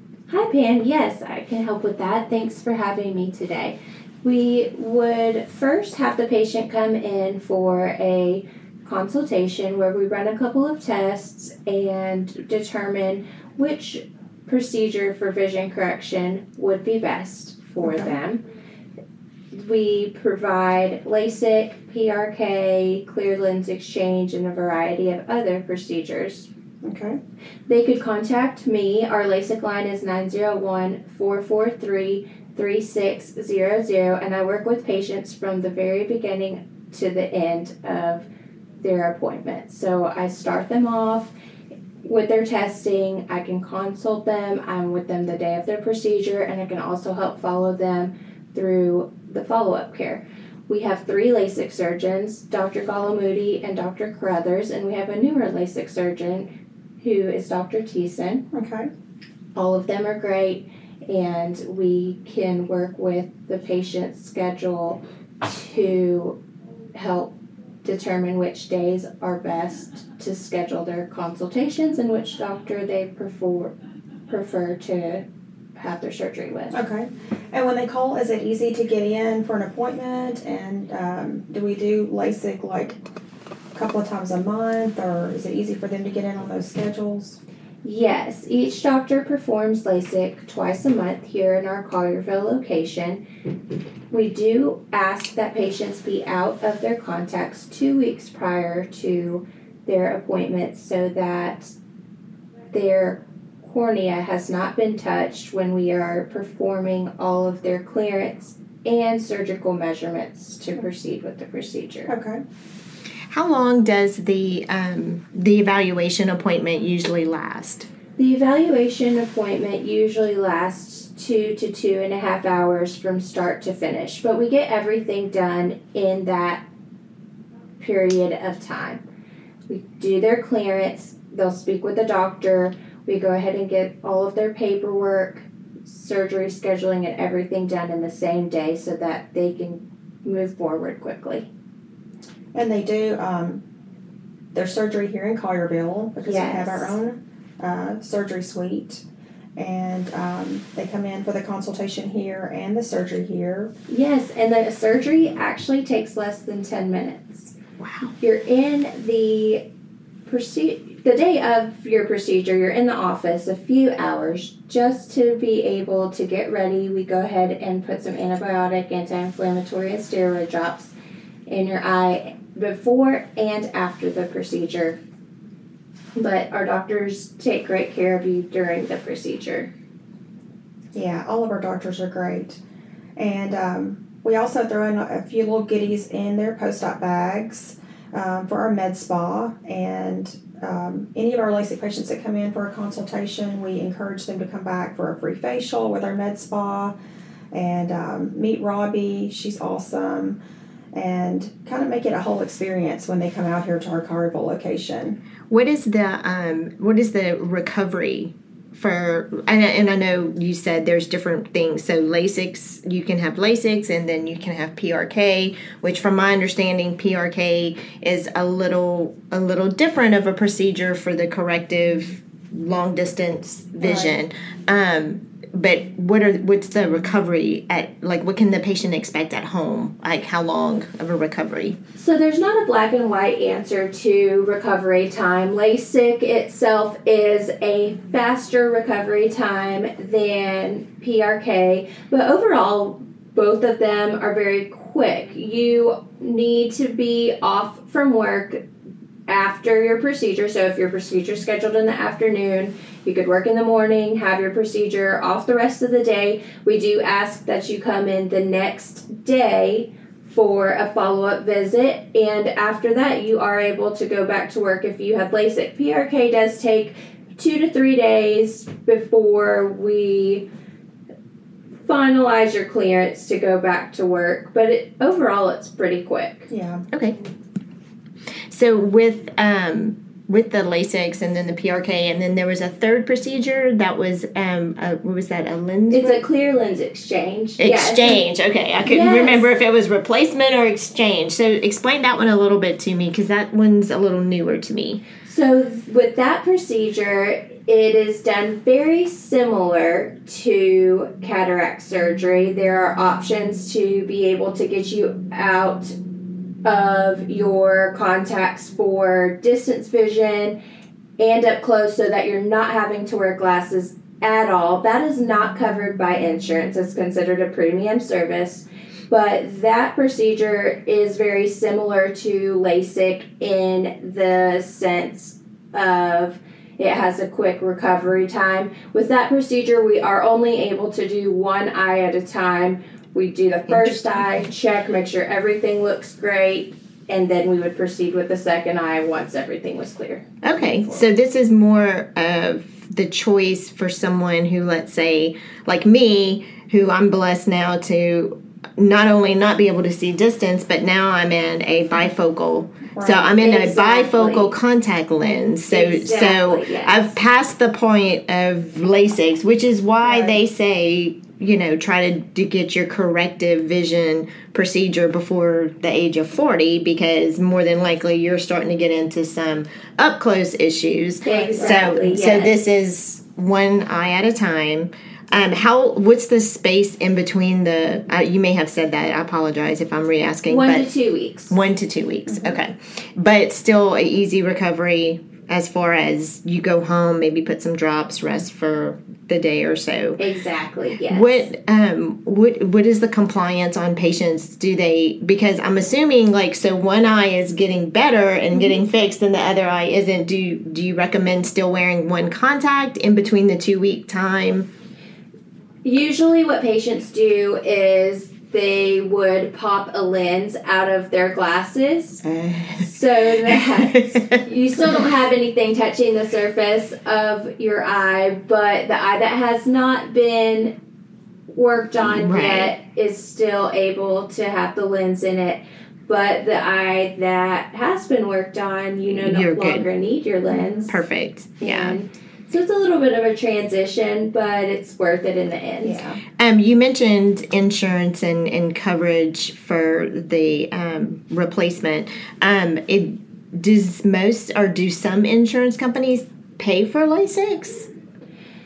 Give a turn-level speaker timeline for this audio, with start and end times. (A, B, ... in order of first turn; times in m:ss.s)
0:00.3-0:18.4 A
0:17.8-0:18.2 B
0:19.5-0:26.5 A
0:26.8-0:27.2 B
0:27.7-0:38.3 A
0:38.8-0:41.3 A
0:42.0-0:56.5 A
0:57.0-0:58.4 A
0:58.5-0:58.9 B
0:59.5-1:06.4 A
1:06.9-1:13.7 A
1:14.3-1:16.8 A
1:16.7-1:23.0 B
1:23.7-1:27.4 B
1:27.8-1:33.2 A
1:34.1-1:41.7 A
1:42.7-1:52.1 A
1:52.1-1:52.4 B
1:53.3-1:57.9 C
1:58.2-2:06.6 A
2:07.8-2:09.0 A
2:09.7-2:21.5 A
2:22.5-2:23.6 B
2:24.5-2:29.0 B
2:26.2-2:27.0 A
2:29.6-2:33.7 B
2:33.9-2:37.5 A
2:37.8-2:38.1 C
2:38.2-2:39.6 A
2:40.3-2:50.9 A
2:51.5-2:55.0 A
2:56.2-2:59.7 A
3:00.9-3:02.6 B
3:03.2-3:16.9 B
3:17.5-3:20.4 B
3:20.9-3:25.2 B
3:25.5-3:51.8 C
3:43.8-3:44.2 B
3:52.0-4:08.6 A
4:09.3-4:30.5 A
4:31.8-4:36.5 A
4:36.5-4:36.8 B
4:36.9-4:37.2 C
4:38.5-4:46.2 C
4:45.9-4:48.2 A
4:47.6-4:55.0 C
4:48.8-4:49.5 A
4:55.2-5:05.9 A
5:06.6-5:10.6 A
5:11.2-5:41.0 A
5:33.7-5:34.4 C
5:40.4-6:20.9 C
5:52.9-5:53.4 B
5:53.4-5:54.6 A
5:55.7-5:57.2 A
6:00.0-6:00.4 B
6:11.2-6:12.6 A
6:11.4-6:11.7 B
6:20.4-6:21.6 A
6:21.5-6:30.2 C
6:22.3-6:22.6 B
6:30.2-6:31.5 A
6:31.1-6:44.7 C
6:45.8-6:52.2 A
6:52.2-6:54.4 C
6:52.8-7:00.7 A
7:01.5-7:11.0 A
7:02.0-7:02.7 C
7:09.1-7:09.9 C
7:10.5-7:10.8 B
7:10.9-7:12.0 C
7:11.6-7:16.0 A
7:15.8-7:16.2 B
7:16.4-7:27.9 C